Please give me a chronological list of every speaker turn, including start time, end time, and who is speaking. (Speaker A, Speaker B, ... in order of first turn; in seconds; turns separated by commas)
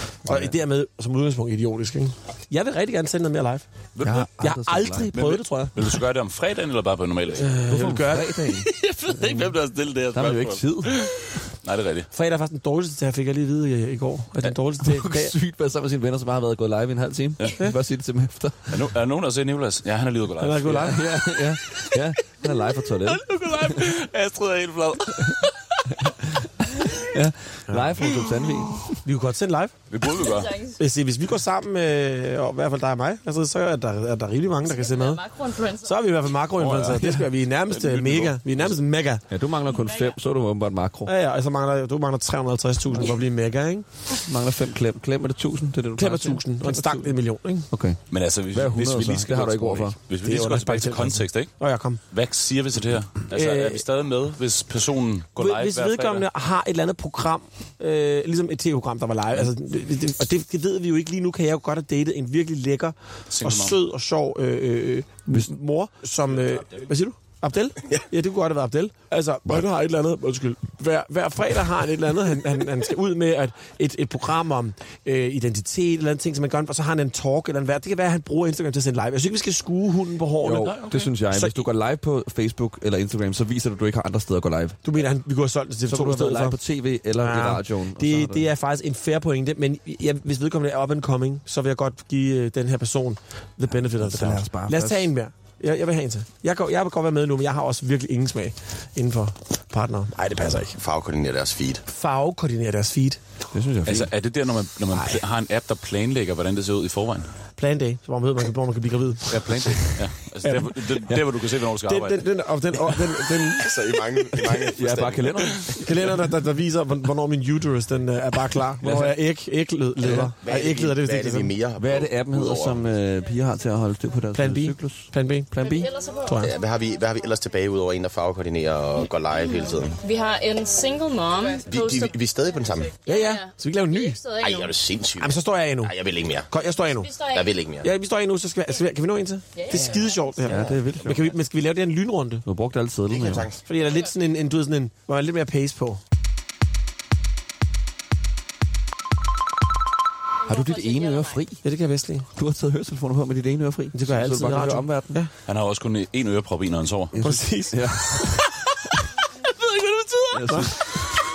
Speaker A: 0.2-0.6, Speaker B: 0.2-3.6, Speaker C: 3.9-4.3, Speaker A: 4.0-5.4, Speaker B: 4.4-6.0, Speaker C: 5.7-7.7, Speaker B: 7.3-8.5, Speaker A: 7.7-8.7, Speaker C: 8.7-12.1, Speaker A: 10.1-11.0, Speaker B: 12.1-15.3, Speaker A: 14.4-18.9, Speaker C: 18.7-20.9, Speaker B: 20.4-21.1, Speaker A: 20.7-23.8, Speaker C: 23.0-25.9, Speaker A: 25.2-29.0, Speaker C: 28.0-28.4, Speaker B: 29.0-29.7, Speaker C: 29.9-30.6, Speaker D: 30.2-30.8, Speaker B: 30.8-35.2, Speaker D: 34.6-36.1, Speaker B: 35.8-39.2, Speaker C: 36.6-38.8, Speaker A: 36.8-37.2, Speaker A: 39.3-41.1, Speaker D: 39.7-40.1, Speaker B: 41.0-43.9, Speaker A: 44.2-47.1, Speaker B: 46.0-47.7, Speaker A: 47.7-48.0, Speaker C: 48.1-51.5, Speaker A: 48.5-50.0, Speaker B: 50.2-52.0, Speaker C: 52.1-56.3, Speaker B: 53.3-53.8, Speaker B: 55.4-81.7, Speaker C: 63.3-63.8, Speaker A: 80.4-84.8, Speaker C: 80.4-81.1, Speaker B: 84.8-86.6, Speaker A: 85.9-88.5, Speaker B: 87.2-100.8, Speaker A: 93.7-95.1, Speaker E: 100.8-101.8, Speaker B: 101.9-103.2, Speaker A: 103.5-104.1, Speaker C: 103.8-107.3, Speaker B: 104.9-105.2, Speaker B: 107.6-109.6, Speaker C: 109.3-112.3, Speaker B: 111.8-113.7, Speaker E: 113.6-115.3, Speaker A: 114.3-116.0, Speaker C: 115.2-115.7, Speaker B: 115.8-121.5, Speaker A: 118.8-119.1, Speaker A: 120.0-120.3, Speaker E: 120.4-122.8, Speaker A: 121.8-125.9, Speaker B: 124.3-126.5, Speaker D: 125.7-126.3, Speaker E: 126.4-130.0, Speaker D: 129.4-132.2, Speaker E: 131.7-133.0, Speaker D: 133.0-134.7, Speaker B: 133.0-134.3, Speaker E: 134.3-136.5, Speaker B: 135.2-137.2, Speaker D: 136.9-137.5, Speaker E: 137.2-137.9, Speaker B: 137.8-142.4, Speaker D: 139.6-140.4, Speaker A: 140.4-141.3, Speaker A: 142.4-143.5, Speaker E: 143.1-143.6, Speaker B: 143.6-146.0, Speaker D: 150.4-151.4, Speaker A: 150.4-151.6, Speaker B: 151.6-152.3, Speaker A: 152.3-155.1, Speaker B: 153.9-155.3, Speaker C: 155.4-157.2, Speaker A: 157.1-158.4, Speaker B: 157.2-158.5, Speaker A: 160.3-161.0, Speaker B: 160.5-161.0